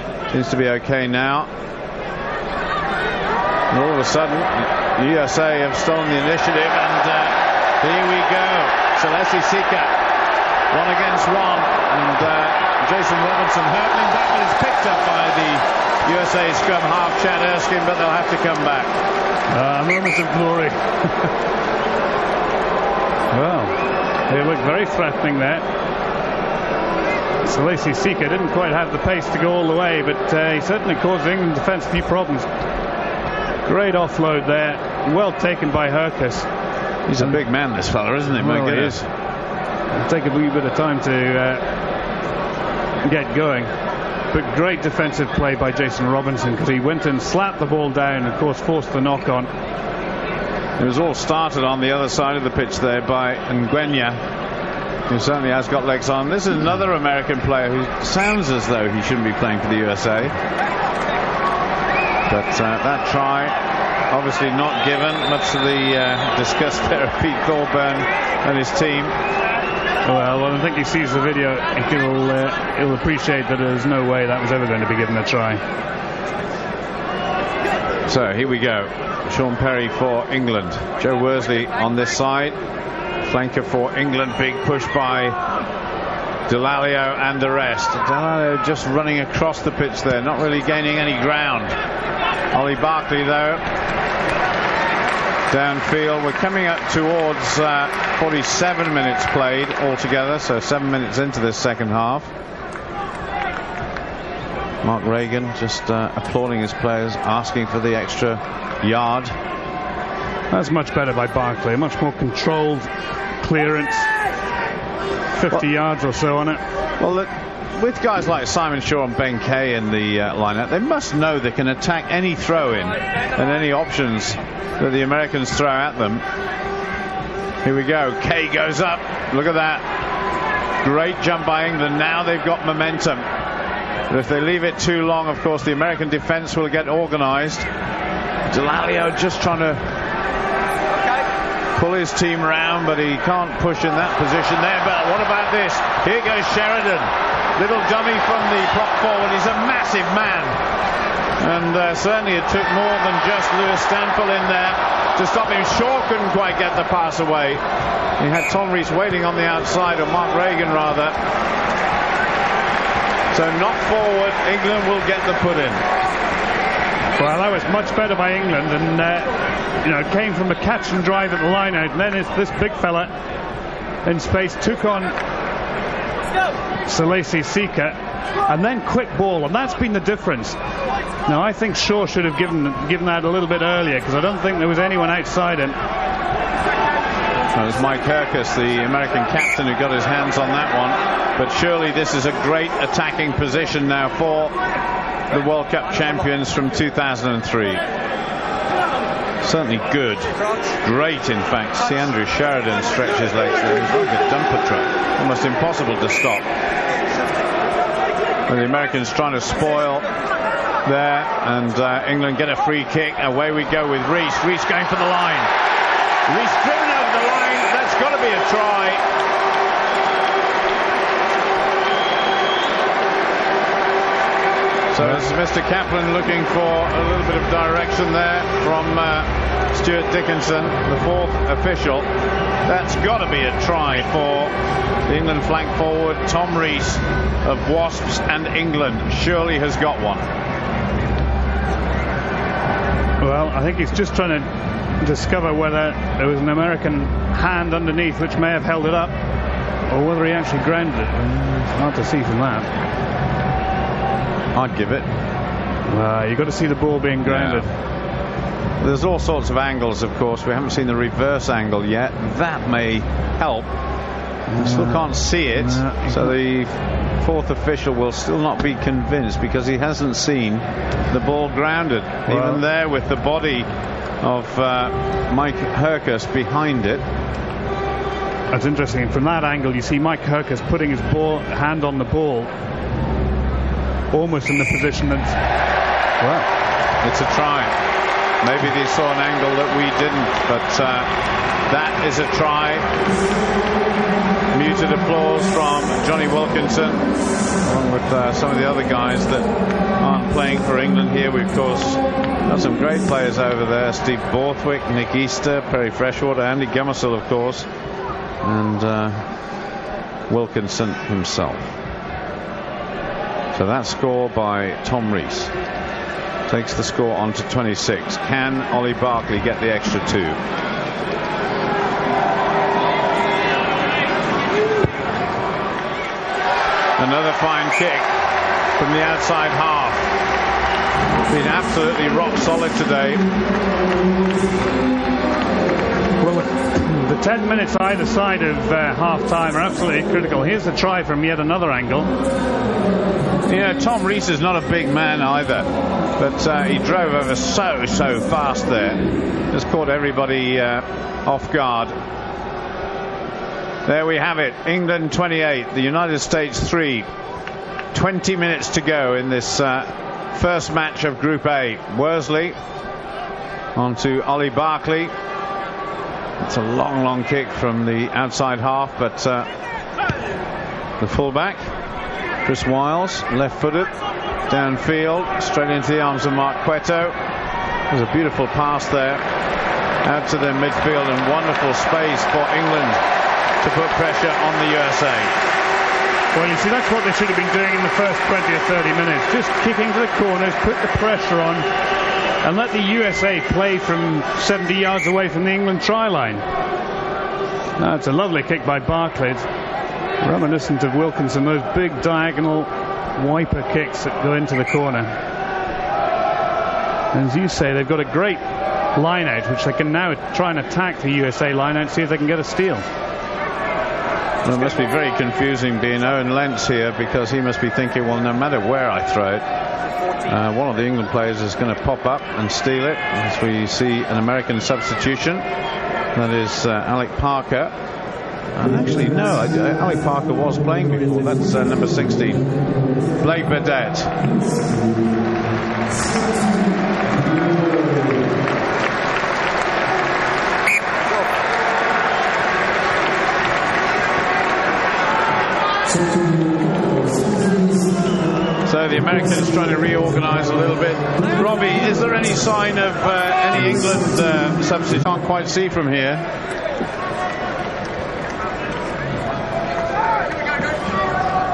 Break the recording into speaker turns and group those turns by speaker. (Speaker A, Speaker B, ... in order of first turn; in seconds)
Speaker A: 0.3-1.5, 3.7-9.9, 10.7-18.9, 37.1-39.1, 50.8-54.2, 55.1-60.3, 62.3-63.6, 64.1-69.1, 78.0-82.5, 83.2-85.4, 86.5-91.7, 92.5-93.6, 95.5-102.3, 104.8-109.3, 117.0-126.2, 127.6-129.8, 130.8-133.2, 134.1-137.7, 138.5-139.8, 141.8-150.6, 151.4-157.6, 158.2-161.2, 163.3-165.8, 187.5-194.5, 195.3-197.8, 199.4-206.4, 208.5-210.1, 210.8-215.5, 216.3-219.0, 224.9-232.1, 232.6-234.5, 235.1-240.3, 254.5-255.1, 257.2-257.7, 258.8-263.7, 264.6-273.7, 274.2-277.0, 287.0-287.7, 288.4-291.1, 291.7-292.9, 294.5-297.1, 297.6-307.7, 308.4-309.2, 310.3-311.8, 313.5-315.5, 316.5-320.4, 327.0-328.1, 328.8-330.1, 331.3-333.2, 343.5-351.9, 353.9-357.1, 357.9-362.6, 363.8-365.1, 366.4-369.5, 371.0-371.7, 372.4-373.9, 374.5-377.1, 377.9-379.2, 380.0-383.0, 383.6-385.3, 414.4-419.4, 420.2-425.4, 426.1-427.7, 428.5-432.4, 433.2-434.2, 448.6-456.2
Speaker B: 19.5-21.3, 23.3-25.6, 27.4-32.5, 33.6-36.5, 38.4-39.0, 39.9-41.6, 43.0-43.7, 44.3-49.5, 70.0-75.6, 110.5-112.9, 113.4-114.1, 115.3-116.6, 167.2-169.3, 169.8-173.1, 174.0-175.1, 176.8-180.6, 181.2-185.8, 243.2-244.5, 245.0-249.1, 249.9-252.7, 255.9-257.7, 264.5-266.3, 272.3-272.6, 278.5-282.5, 284.1-285.4, 286.2-286.5, 336.2-342.1, 386.3-391.7, 392.4-396.4, 397.8-399.5, 400.2-405.1, 407.1-408.4, 408.9-412.8